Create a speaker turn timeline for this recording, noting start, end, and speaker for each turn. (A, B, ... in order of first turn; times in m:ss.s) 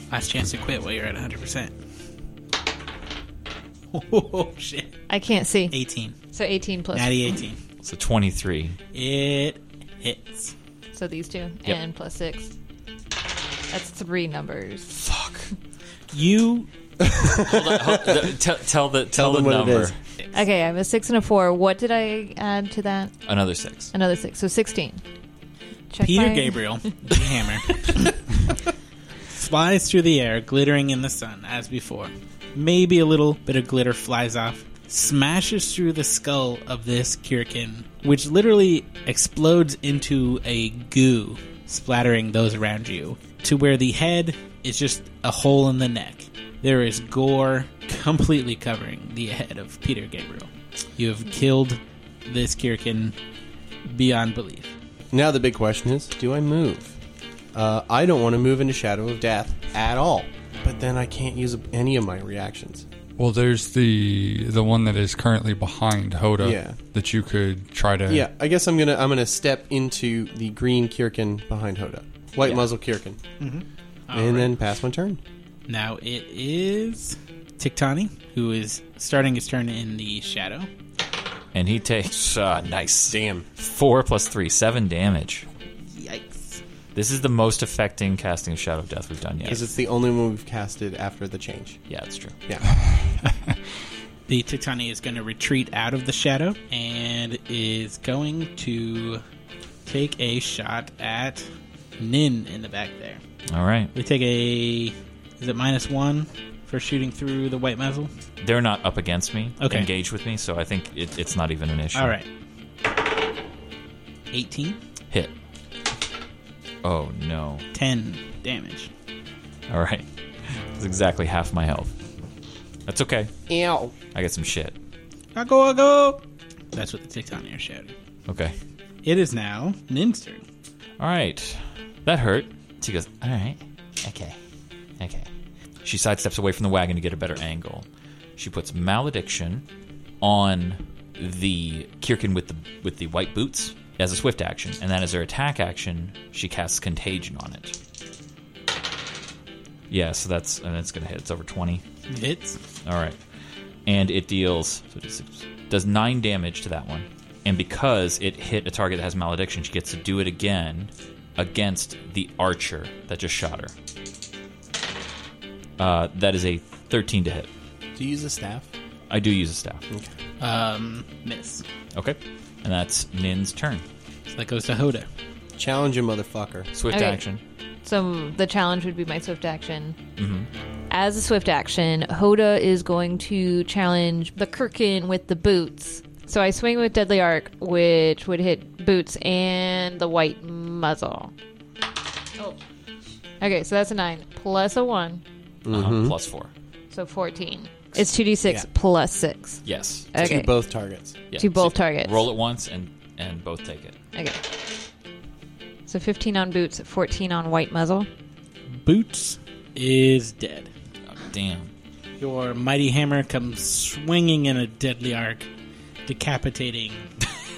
0:00.1-0:01.7 A
0:03.9-0:04.9 A
0:05.1-0:05.7 B
0:05.7-0:06.1 A
0:06.3-0:07.3 B
0:06.9-0:07.6 A
0:07.8-0:08.8 C
0:08.9-0:10.5 A
0:10.9-0:12.5 B
0:13.7-0:15.0 B
0:14.9-0:15.5 C
0:16.1-0:16.7 A
0:17.0-0:18.3 D
0:17.4-0:20.0 C
0:19.1-0:19.9 D
0:20.3-0:23.1 B
0:23.2-0:23.9 C
0:23.9-0:25.0 B
0:25.9-0:26.8 B
0:26.0-0:28.1 A
0:29.3-0:53.1 A
0:53.8-0:54.7 A
0:55.1-0:56.9 D
0:57.5-1:02.8 D
1:03.2-1:08.3 E
1:06.4-1:06.8 D
1:08.1-1:13.2 D
1:13.4-1:14.5 A
1:14.1-1:15.2 D
1:15.7-1:20.7 A
1:21.5-1:25.4 C
1:23.1-1:23.4 D
1:25.8-1:26.6 A
1:26.9-1:29.7 C
1:29.4-1:31.8 D
1:31.9-1:32.4 C
1:32.7-1:33.6 E
1:34.3-1:39.2 A
1:39.8-1:41.4 A
1:42.0-1:43.2 A
1:43.5-1:43.9 C
1:43.9-1:48.1 A
1:48.4-1:52.1 C
1:49.6-1:49.9 A
1:51.9-1:52.2 A
1:54.3-1:54.8 A
1:56.8-1:57.6 C
1:57.7-1:58.9 A
1:59.7-2:01.9 C
2:02.9-2:03.3 C
2:03.5-2:03.9 D
2:04.1-2:04.8 C
2:05.3-2:06.2 A
2:06.7-2:07.9 A
2:08.3-2:08.5 C
2:09.0-2:10.4 A
2:11.0-2:14.4 C
2:15.0-2:15.3 C
2:15.8-2:19.6 C
2:20.2-2:27.8 C
2:29.9-2:31.8 C
2:32.1-2:32.6 A
2:32.8-2:33.2 C
2:33.8-2:43.7 C
2:45.8-2:47.5 C
2:48.0-2:48.7 D
2:49.1-2:49.8 C
2:50.4-2:51.6 A
2:51.9-2:53.8 C
2:54.3-2:55.1 A
2:55.6-2:56.7 D
2:56.7-2:57.4 C
2:56.9-2:57.2 B
2:57.8-3:00.0 B
3:00.2-3:00.5 C
3:00.9-3:11.3 B
3:13.4-3:15.2 B
3:15.6-3:16.2 D
3:15.7-3:16.5 C
3:16.9-3:19.6 B
3:19.6-3:20.1 C
3:20.1-3:20.5 B
3:20.2-3:21.2 D
3:21.3-3:24.0 C
3:21.3-3:22.3 B
3:24.1-3:24.5 B
3:25.9-3:28.1 B
3:28.7-3:30.7 A
3:31.1-3:31.7 C
3:32.2-3:35.4 A
3:36.1-3:37.1 A